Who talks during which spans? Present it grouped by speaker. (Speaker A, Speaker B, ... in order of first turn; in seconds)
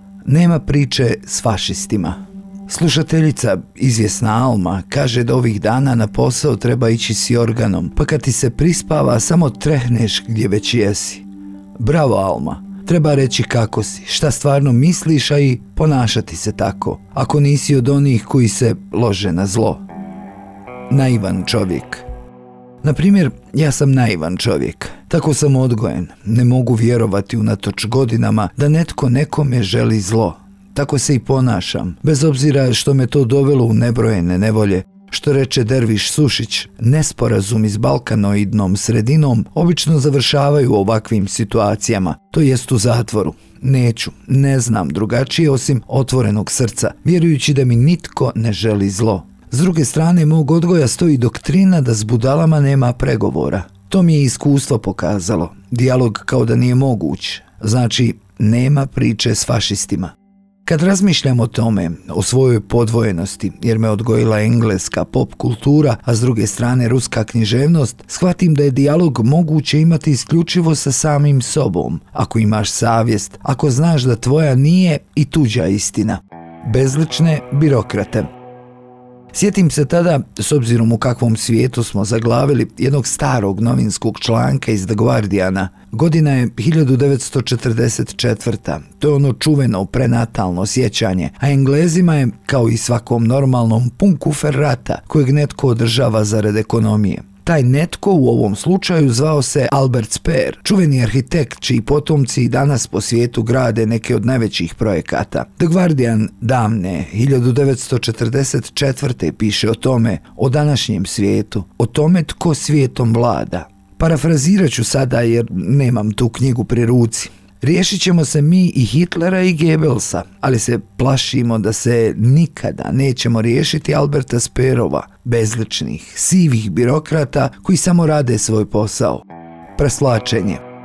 Speaker A: 0.2-11.3, 11.8-19.8, 20.9-22.1, 22.8-60.1, 60.7-78.3, 79.3-129.2, 129.8-130.6